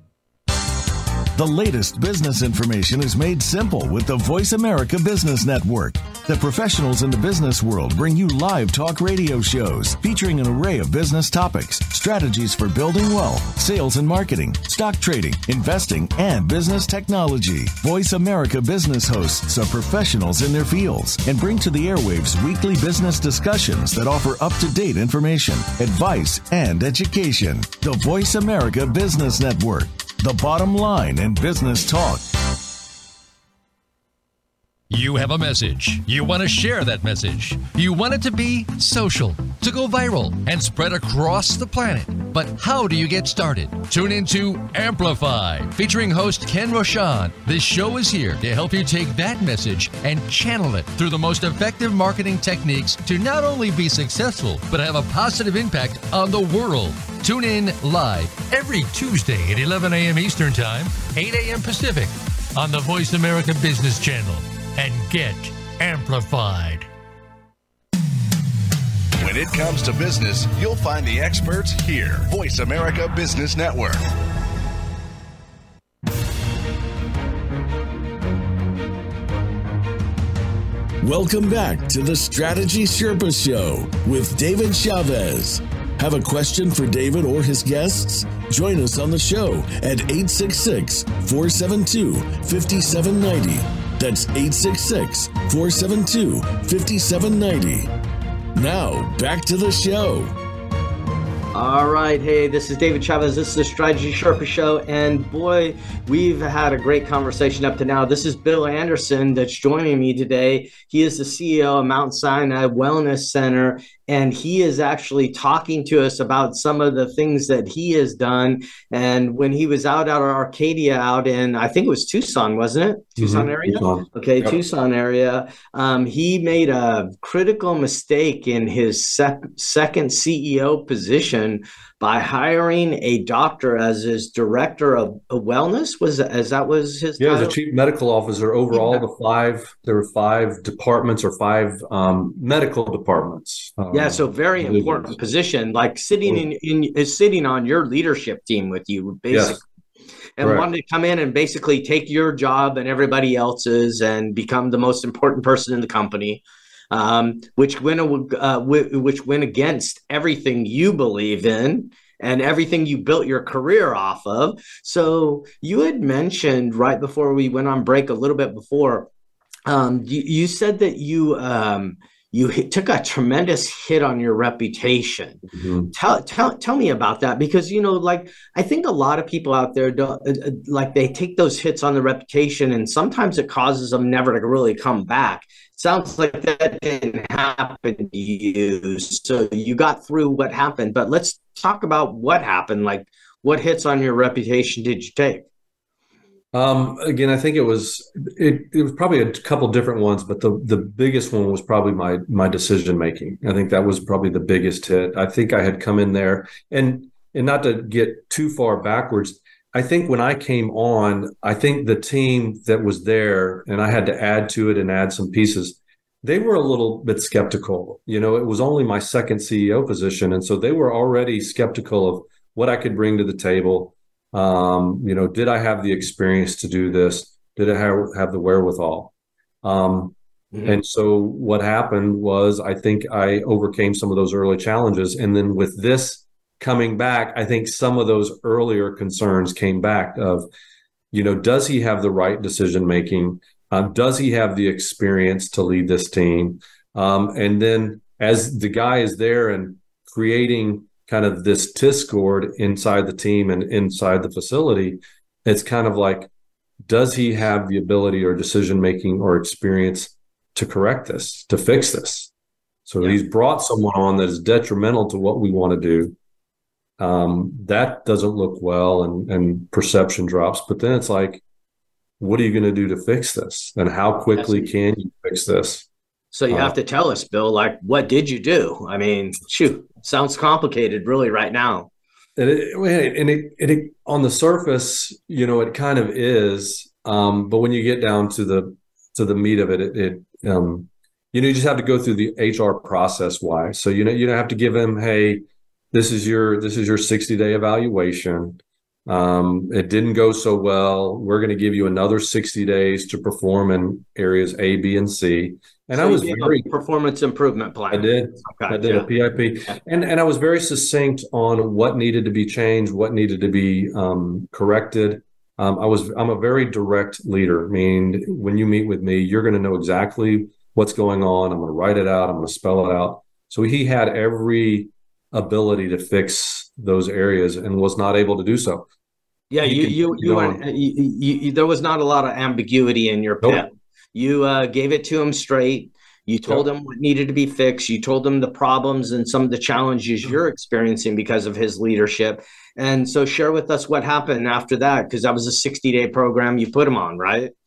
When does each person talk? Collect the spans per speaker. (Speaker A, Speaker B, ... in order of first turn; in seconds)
Speaker A: 1.3-32.3, 81.0-97.9, 98.5-100.3
Speaker B: 34.9-66.9
Speaker C: 69.2-74.0
Speaker D: 101.5-137.6, 138.7-139.0, 143.9-149.6, 150.4-169.1, 169.7-195.4, 274.4-274.7, 276.3-281.9, 305.9-309.1, 329.5-347.5
Speaker E: 123.2-124.6, 137.2-145.2, 149.3-149.6, 150.4-150.7, 175.5-175.9, 196.5-229.1, 229.6-240.5, 241.1-256.3, 256.9-262.3, 262.9-266.1, 267.0-271.4, 272.2-275.9, 282.4-306.6, 307.9-328.9, 329.6-330.6